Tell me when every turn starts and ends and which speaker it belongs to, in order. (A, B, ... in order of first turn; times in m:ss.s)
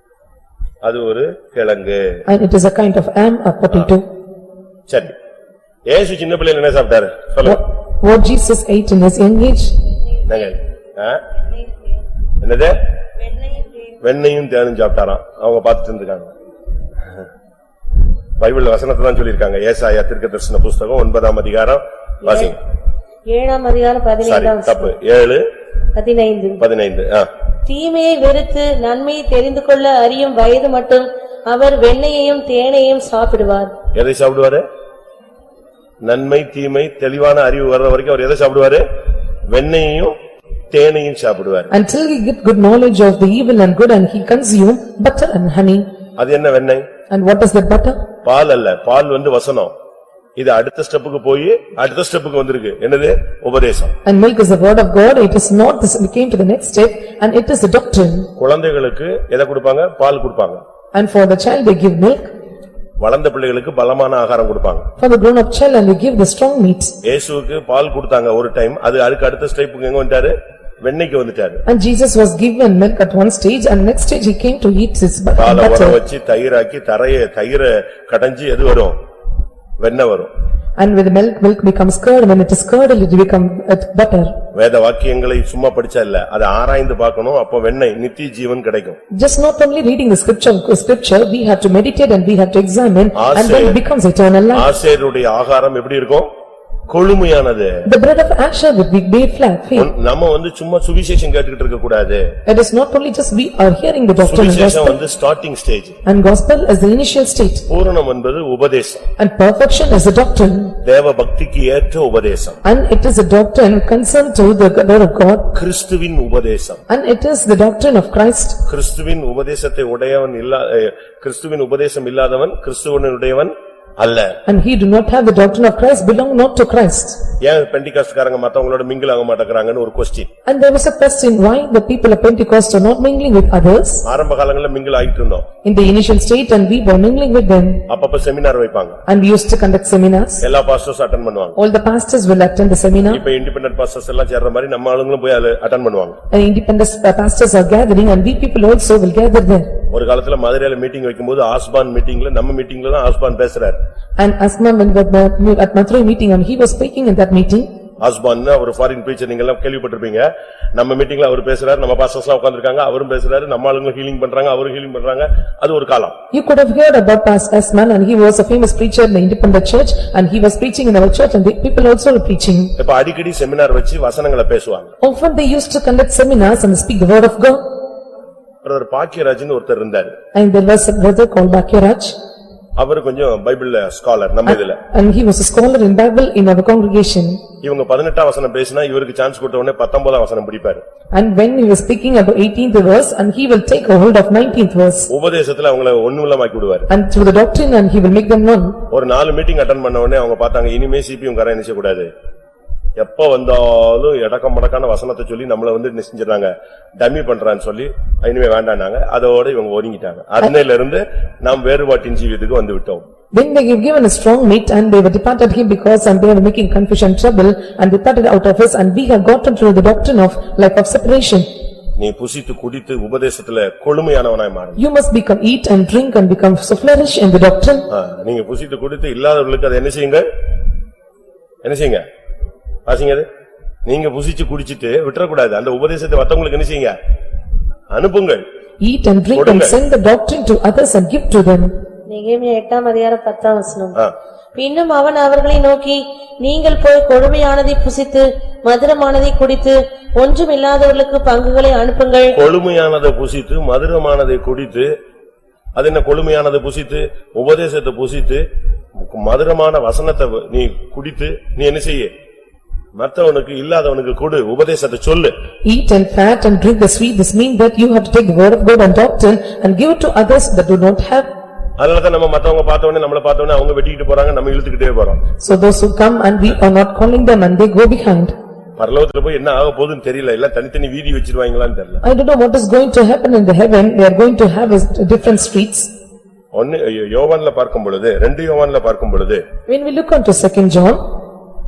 0:00.8-0:02.2 A
0:02.3-0:04.0 B
0:04.9-0:05.1 A
0:05.9-0:07.6 A
0:07.4-0:09.7 B
0:10.2-0:11.2 A
0:11.6-0:11.9 C
0:12.4-0:12.8 A
0:13.3-0:13.9 C
0:14.0-0:16.3 A
0:18.4-0:22.6 A
0:22.3-0:22.5 C
0:23.3-0:24.9 C
0:24.2-0:25.4 A
0:25.9-0:26.6 C
0:26.6-0:27.3 A
0:27.6-0:33.7 C
0:33.9-0:34.6 A
0:36.0-0:38.8 A
0:39.5-0:40.1 A
0:40.7-0:41.7 A
0:41.7-0:45.8 B
0:46.2-0:46.9 A
0:47.1-0:48.0 B
0:48.2-0:49.7 A
0:50.4-0:53.9 A
0:54.0-0:58.3 B
0:58.4-1:00.6 A
1:00.9-1:02.3 B
1:03.0-1:04.9 A
1:05.0-1:06.9 B
1:07.0-1:11.6 A
1:11.6-1:16.0 B
1:15.4-1:18.9 A
1:19.8-1:20.3 A
1:20.8-1:24.4 B
1:24.5-1:29.0 A
1:29.1-1:34.7 B
1:33.1-1:33.8 A
1:34.5-1:36.3 A
1:36.9-1:37.7 A
1:37.8-1:39.9 B
1:39.7-1:42.3 A
1:42.4-1:45.0 B
1:44.2-1:46.0 A
1:46.0-1:47.7 B
1:47.7-1:49.1 A
1:49.2-1:50.8 B
1:50.8-1:52.6 A
1:52.6-1:55.5 B
1:55.5-1:56.8 A
1:56.9-1:58.6 B
1:58.6-2:04.3 A
2:04.4-2:07.2 B
2:07.4-2:10.3 A
2:10.4-2:14.0 B
2:14.0-2:15.5 A
2:15.6-2:17.8 B
2:17.9-2:19.0 A
2:19.1-2:20.4 B
2:20.4-2:21.6 A
2:21.6-2:23.2 B
2:23.1-2:26.2 A
2:26.3-2:29.7 B
2:29.9-2:33.8 A
2:34.2-2:37.7 B
2:38.0-2:46.2 A
2:46.3-2:52.7 B
2:52.8-2:54.9 A
2:55.0-2:57.6 B
2:58.6-3:00.1 A
3:00.3-3:02.1 B
3:02.8-3:04.8 A
3:04.5-3:07.4 B
3:07.6-3:10.8 A
3:11.1-3:15.1 B
3:15.1-3:16.9 A
3:16.9-3:18.8 B
3:18.9-3:22.1 A
3:23.0-3:33.0 A
3:33.3-3:41.4 B
3:42.0-3:44.8 A
3:44.8-3:47.9 B
3:47.9-3:50.2 A
3:51.6-3:52.0 A
3:52.9-3:53.3 A
3:53.8-3:56.9 A
3:57.9-3:58.4 A
3:58.8-4:01.7 B
3:59.3-3:59.8 A
4:02.1-4:04.0 C
4:04.5-4:12.4 C
4:12.3-4:14.9 A
4:15.8-4:18.4 A
4:19.0-4:22.1 A
4:23.0-4:25.3 A
4:25.6-4:31.3 B
4:31.8-4:35.2 A
4:35.4-4:38.3 B
4:38.8-4:42.0 A
4:42.0-4:45.9 B
4:46.5-4:49.4 A
4:49.7-4:51.0 B